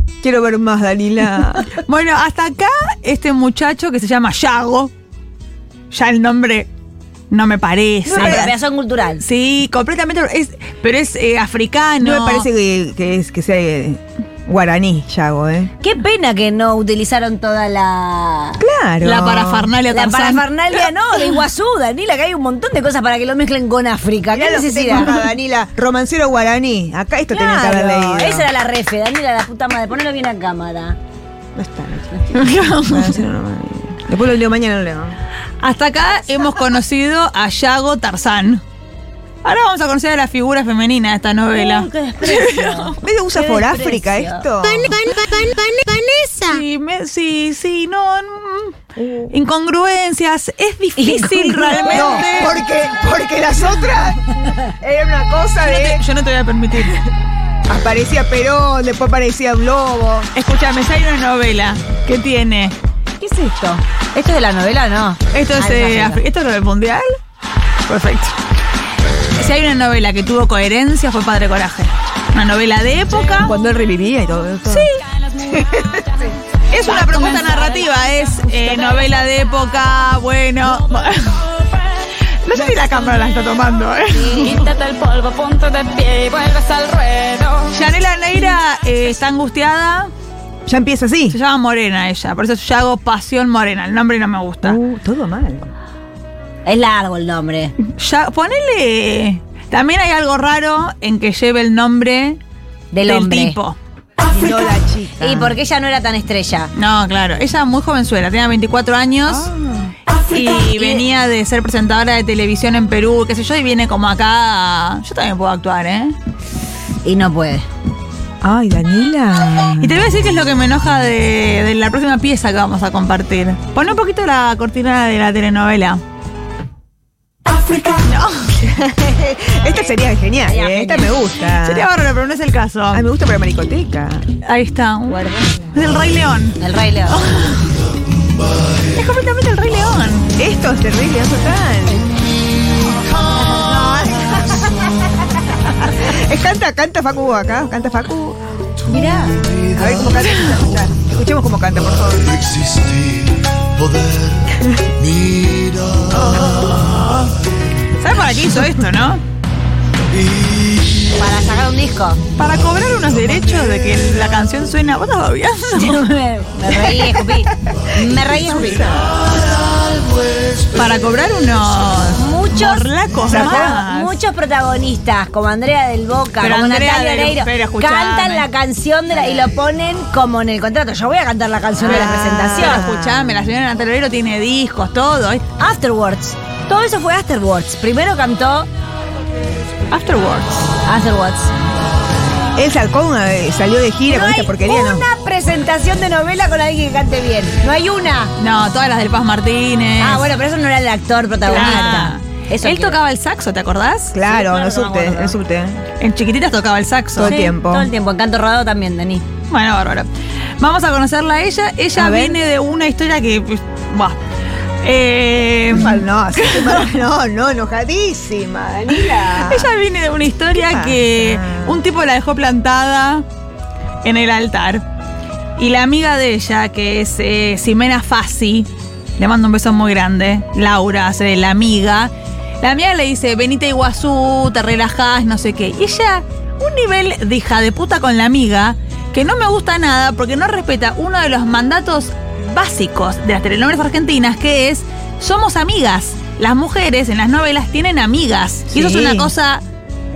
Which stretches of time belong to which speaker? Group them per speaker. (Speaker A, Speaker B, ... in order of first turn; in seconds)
Speaker A: 0.2-1.7, 8.1-8.5, 12.0-15.7, 18.6-19.7, 24.3-28.5, 31.6-35.2, 43.0-45.1, 49.0-49.3, 51.9-56.0, 57.7-60.3, 73.4-76.2, 90.7-91.4, 94.6-95.7, 104.3-105.6, 109.3-110.0, 118.4-120.0, 128.6-131.9, 132.9-134.3, 140.4-142.1, 143.4-145.1, 145.7-148.4, 149.7-152.4, 156.1-156.7, 166.9-169.1, 173.3-173.8, 181.8-183.4, 192.6-195.1, 201.5-202.1, 204.1-205.8, 207.2-207.9, 212.0-212.4, 215.7-219.7, 220.5-221.8, 248.7-249.3
Speaker B: 1.8-4.9, 5.9-6.7, 7.3-8.5, 9.2-12.5, 19.0-20.4, 32.3-33.2, 35.6-38.6, 39.4-43.0, 46.5-48.8, 49.3-52.6, 55.6-57.0, 60.4-62.8, 65.3-67.1, 67.9-68.3, 69.4-73.5, 74.7-75.0, 76.7-81.5, 82.5-84.6, 87.7-90.1, 91.3-94.8, 97.8-102.4, 103.0-103.8, 106.8-109.5, 110.3-116.2, 119.8-126.0, 127.7-128.5, 131.6-133.1, 134.4-135.2, 135.7-136.6, 137.1-137.7, 138.9-140.3, 150.2-150.5, 156.8-157.1, 158.0-159.2, 162.4-166.0, 170.7-174.2, 176.4-178.5, 181.9-185.4, 189.9-190.7, 198.4-200.3, 201.5-204.1, 206.0-207.4, 209.5-210.1, 210.6-214.2, 214.8-216.9, 219.1-223.2, 224.0-224.8, 225.6-249.6
Speaker C: 8.1-9.2, 15.8-18.6, 19.9-25.1, 27.3-31.0, 41.6-46.6, 51.0-52.3, 63.2-66.2, 84.1-84.6, 96.7-97.7, 102.9-103.6, 105.2-106.7, 110.3-111.0, 117.0-117.7, 130.5-131.2, 135.1-135.5, 136.6-137.2, 148.9-149.3, 161.2-162.2, 165.7-169.0, 172.1-182.8, 185.6-188.7, 190.8-191.5, 194.1-198.3, 200.0-203.0, 204.2-205.3, 207.2-209.2
Speaker D: 84.4-87.8